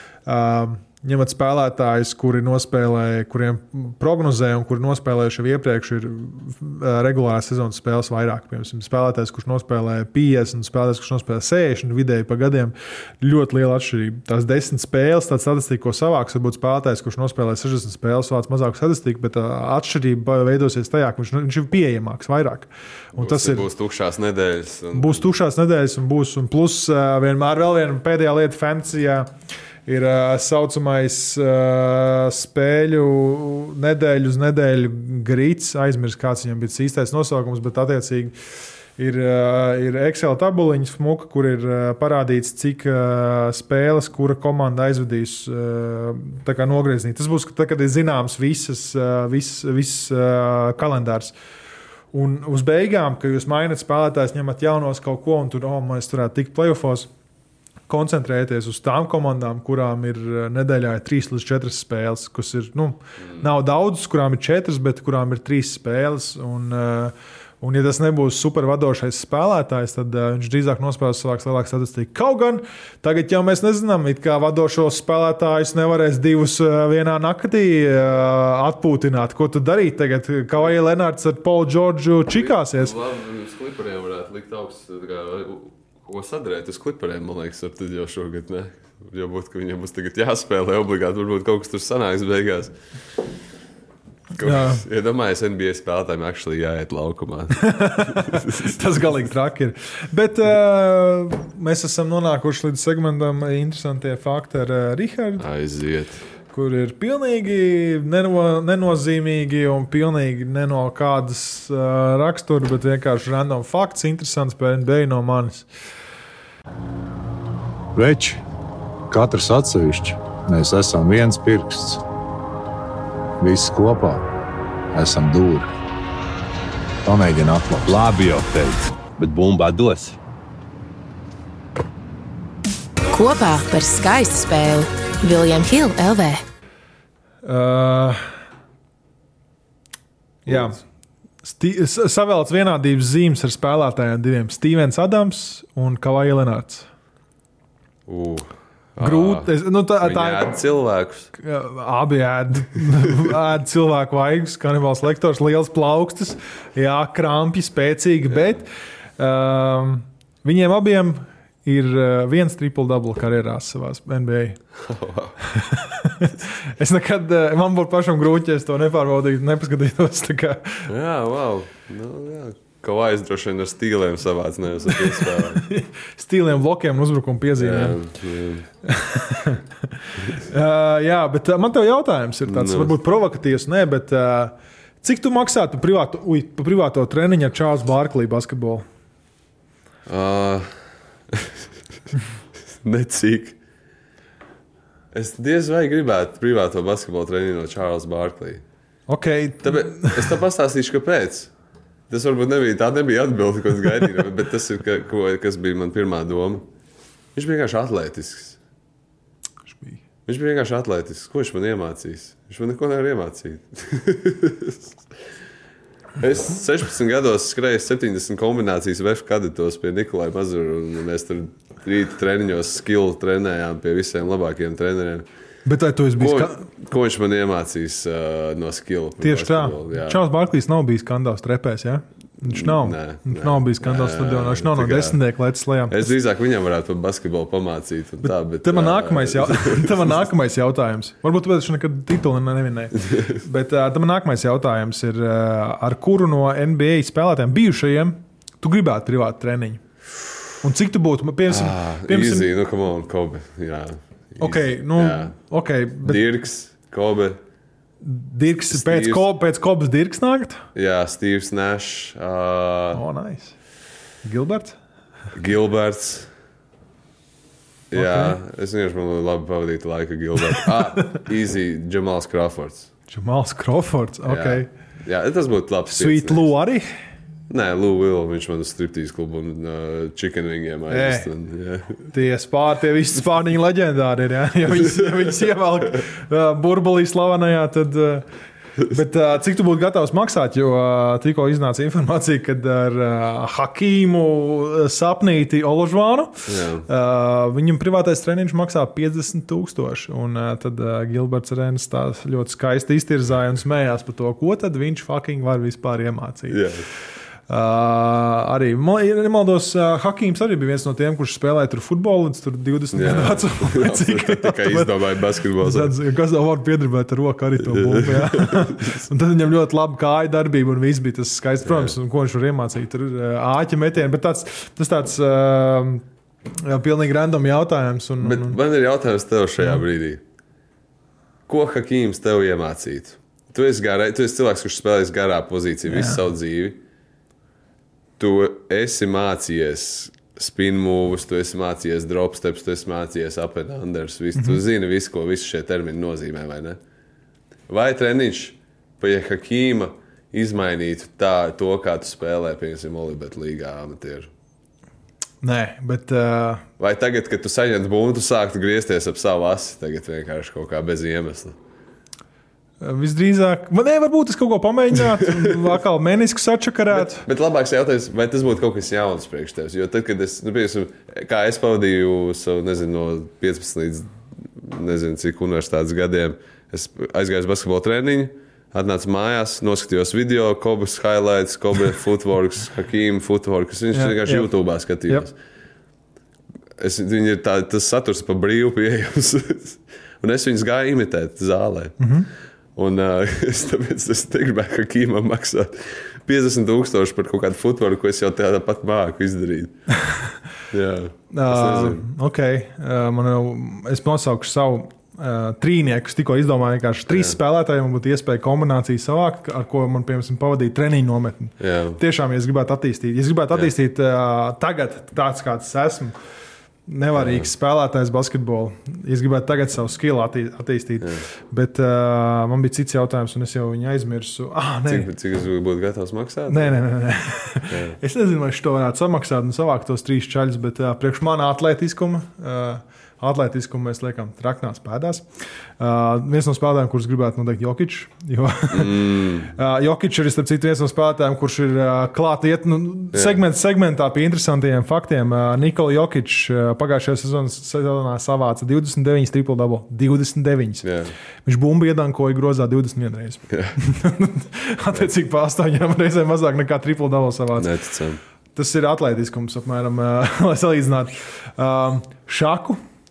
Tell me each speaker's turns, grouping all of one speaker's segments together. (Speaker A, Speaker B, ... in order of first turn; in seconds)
Speaker A: 0.3-23.7, 24.9-29.3, 29.9-38.3, 39.0-51.3, 52.1-57.1, 57.9-83.0, 94.4-94.8, 97.6-105.5, 106.5-115.7, 137.4-138.3, 140.5-140.8, 141.4-146.9, 149.0-150.6, 151.4-158.7, 159.2-164.6, 165.5-170.9, 175.2-178.0, 178.8-188.9, 199.1-200.3, 209.7-210.0, 225.7-226.7, 229.2-236.1, 238.2-249.8, 250.6-252.5, 254.4-256.2, 258.0-260.7, 262.9-263.6, 264.2-264.8, 267.9-268.4, 270.5-271.2, 273.1-274.7, 275.9-276.9, 280.9-281.3, 282.1-288.2, 288.8-306.6, 307.5-314.9, 315.6-326.0, 326.6-328.6, 335.9-336.2, 344.4-344.6, 355.4-356.6, 362.8-367.2, 383.9-384.5, 392.0-392.3, 401.3-416.2, 416.9-425.1, 426.5-435.3, 435.8-450.9, 451.4-457.7, 458.6-462.8
Speaker B: 23.1-25.3, 82.3-92.7, 94.4-98.7, 105.4-106.3, 140.5-140.7, 148.1-151.3, 164.8-165.4, 170.9-175.6, 177.6-178.7, 182.5-182.9, 190.1-190.8, 191.3-191.6, 192.8-193.6, 195.1-198.6, 199.6-201.5, 202.1-206.7, 207.3-208.6, 210.3-214.9, 216.2-225.3, 226.2-230.2, 232.5-235.2, 235.9-240.2, 251.5-255.4, 256.0-257.4, 258.7-259.3, 260.8-263.0, 265.4-266.3, 267.9-272.9, 274.3-276.5, 277.5-282.1, 296.5-296.9, 306.5-306.8, 312.9-315.9, 317.6-319.1, 321.6-321.9, 328.2-330.2, 331.5-336.8, 338.2-346.8, 347.7-354.3, 356.8-361.6, 366.9-385.4, 386.8-392.1, 392.8-399.8, 400.7-402.0, 407.1-407.4, 411.6-412.0, 417.1-417.5, 424.9-426.8, 427.7-428.0, 438.7-439.5, 443.1-443.4, 450.8-451.1, 453.5-453.8, 457.6-458.2
Speaker C: 118.0-118.4, 119.1-122.0, 123.4-124.2, 124.9-125.7, 127.1-128.1
Speaker D: 127.9-130.2
Speaker E: 133.1-136.4